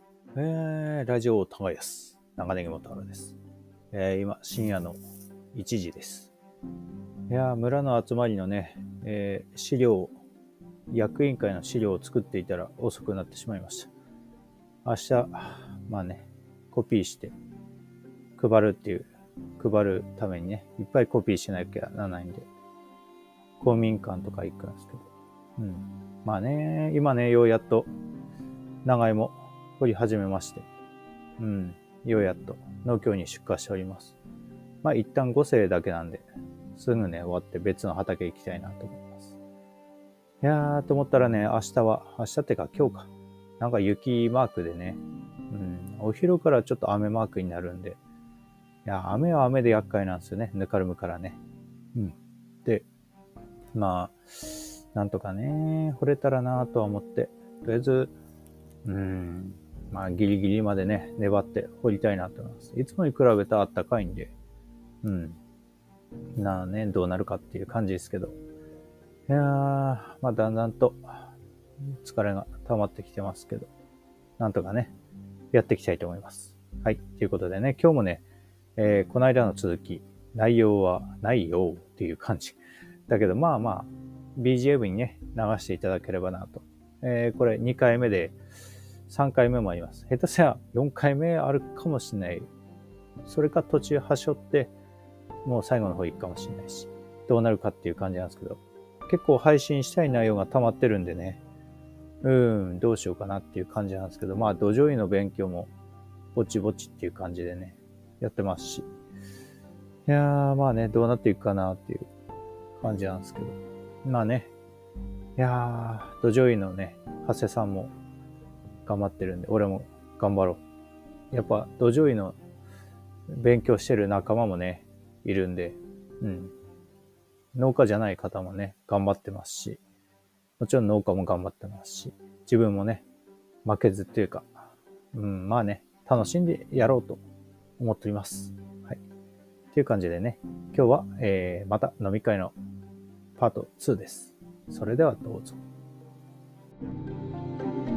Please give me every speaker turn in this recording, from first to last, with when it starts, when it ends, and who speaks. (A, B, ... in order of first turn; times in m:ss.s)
0:00.3-0:03.4 A
0:03.9-0:05.0 A
0:05.5-0:06.3 A
0:07.3-0:10.2 A
0:10.9-0:13.9 A
0:14.8-0:17.3 A
0:18.4-0:22.5 A
0:23.6-0:25.0 A
0:25.6-0:27.9 A
0:28.8-0:30.7 A
0:31.4-0:34.2 A
0:34.8-0:39.3 A
0:40.4-0:48.0 A
0:48.8-0:51.4 A
0:51.9-0:52.8 A
0:53.7-0:58.1 A
0:58.8-1:04.3 A
1:05.0-1:05.4 A
1:06.3-1:08.4 A
1:09.3-1:11.3 A
1:11.8-1:13.7 A
1:14.4-1:14.9 A
1:15.5-1:18.2 A
1:18.8-1:28.4 A
1:29.1-1:32.5 A
1:33.2-1:34.7 A
1:35.4-1:41.4 A
1:42.2-1:45.7 A
1:46.3-1:48.8 A
1:50.0-1:52.1 A
1:52.8-1:54.5 A
1:55.4-1:57.9 A
1:58.8-2:00.6 A
2:01.3-2:02.4 A
2:03.3-2:06.5 A
2:07.5-2:09.8 A
2:10.6-2:13.0 A
2:13.6-2:17.2 A
2:17.8-2:19.0 A
2:19.7-2:22.5 A
2:23.4-2:25.6 A